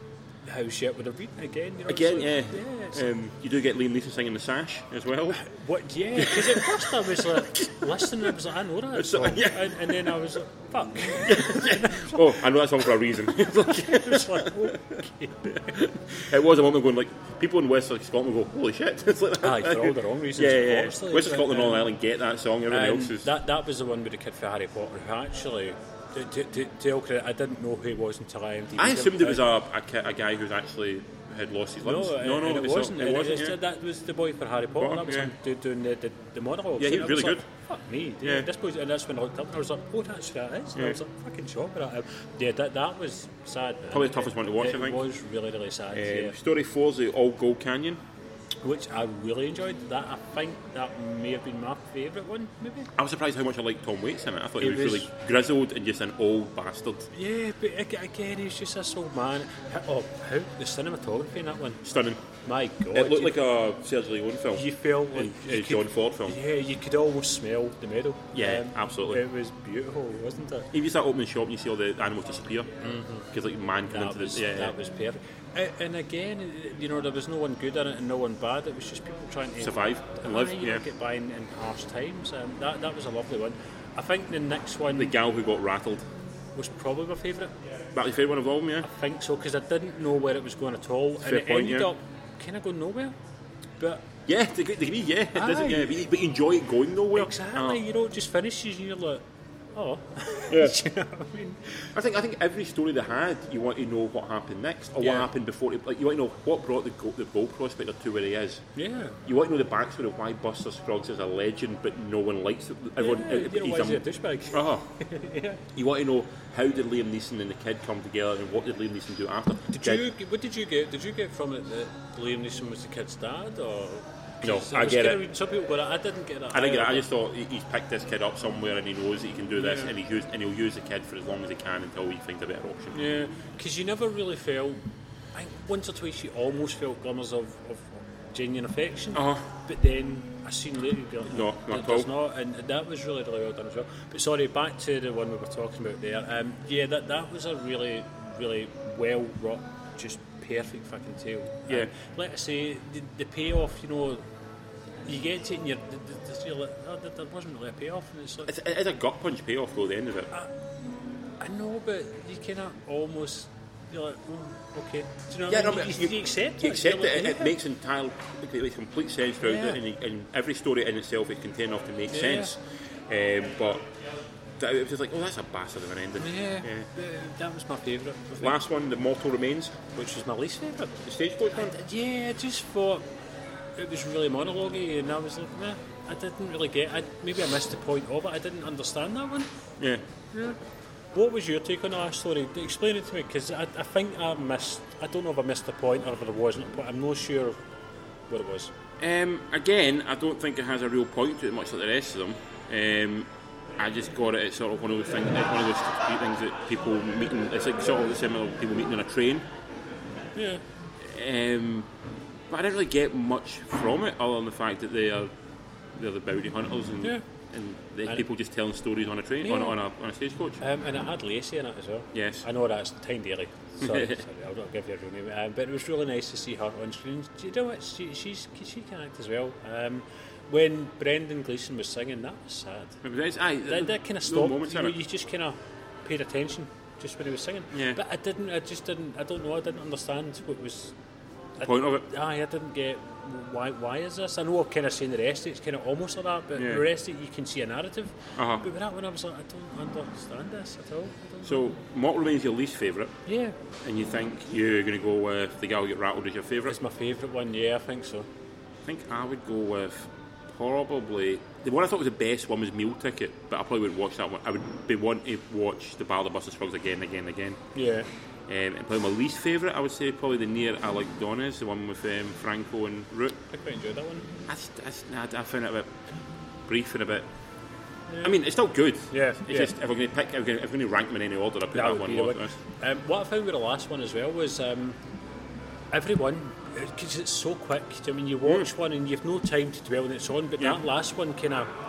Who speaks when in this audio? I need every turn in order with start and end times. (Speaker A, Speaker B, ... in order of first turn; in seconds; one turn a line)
Speaker A: 0.5-3.1
Speaker B: 1.9-5.5
Speaker A: 5.4-12.3
Speaker B: 6.2-8.3
Speaker B: 8.9-10.2
Speaker B: 11.1-23.3
Speaker A: 13.5-16.3
Speaker A: 19.4-21.9
Speaker A: 22.7-29.4
Speaker B: 28.8-33.6
Speaker A: 31.8-46.4
Speaker B: 34.8-35.3
Speaker B: 36.8-37.5
Speaker B: 43.9-45.0
Speaker B: 45.9-48.0
Speaker A: 48.6-52.9
Speaker B: 53.0-57.1
Speaker A: 54.6-55.1
Speaker A: 57.1-61.8
Speaker B: 61.8-62.2
Speaker A: 62.5-63.4
Speaker B: 62.9-66.4
Speaker A: 64.6-70.7
Speaker B: 68.3-69.2
Speaker B: 70.7-72.7
Speaker A: 72.8-73.3
Speaker B: 73.3-74.8
Speaker A: 73.9-85.1
Speaker B: 79.6-80.8
Speaker B: 85.0-86.1
Speaker A: 86.6-87.5
Speaker B: 87.9-88.9
Speaker A: 88.8-93.2
Speaker B: 91.2-91.9
Speaker A: 93.8-94.1
Speaker B: 94.3-97.8
Speaker A: 95.3-96.0
Speaker A: 97.1-99.2
Speaker A: 99.8-101.9
Speaker B: 100.5-100.8
Speaker B: 101.9-108.6
Speaker A: 105.0-105.3
Speaker A: 108.8-109.2
Speaker B: 109.2-115.0
Speaker A: 113.0-115.6
Speaker B: 115.7-120.1
Speaker A: 119.7-127.0
Speaker B: 124.4-125.2
Speaker B: 126.5-133.0
Speaker A: 129.6-129.9
Speaker A: 132.9-134.8
Speaker A: 135.3-154.2
Speaker B: 139.1-139.5
Speaker B: 141.3-142.1
Speaker A: 155.1-158.5
Speaker B: 158.5-160.3
Speaker A: 161.4-167.6
Speaker B: 165.5-173.9
Speaker A: 169.4-169.8
Speaker A: 172.1-172.5
Speaker B: 174.6-176.9
Speaker A: 176.2-178.6
Speaker B: 178.4-179.8
Speaker A: 179.9-183.1
Speaker B: 181.0-181.8
Speaker A: 183.8-189.5
Speaker B: 189.8-190.0
Speaker A: 190.3-190.6
Speaker A: 191.1-197.6
Speaker A: 198.3-198.7
Speaker B: 199.0-209.5
Speaker A: 210.4-210.6
Speaker B: 211.0-211.9
Speaker B: 212.5-215.3
Speaker B: 215.9-220.6
Speaker A: 219.4-219.8
Speaker A: 220.6-233.0
Speaker B: 222.1-222.4
Speaker B: 223.8-224.2
Speaker B: 233.0-235.0
Speaker A: 233.7-240.9
Speaker B: 237.7-238.0
Speaker A: 241.6-251.7
Speaker B: 241.6-242.1
Speaker B: 246.6-246.8
Speaker B: 248.4-248.7
Speaker B: 251.4-253.2
Speaker A: 253.3-253.6
Speaker B: 253.8-256.8
Speaker A: 256.7-258.3
Speaker B: 258.9-267.6
Speaker A: 267.8-268.1
Speaker B: 268.5-273.4
Speaker A: 273.5-274.3
Speaker B: 274.5-275.9
Speaker B: 276.7-277.3
Speaker A: 278.1-278.4
Speaker B: 278.2-282.6
Speaker A: 279.1-279.7
Speaker A: 281.7-285.0
Speaker A: 285.9-291.7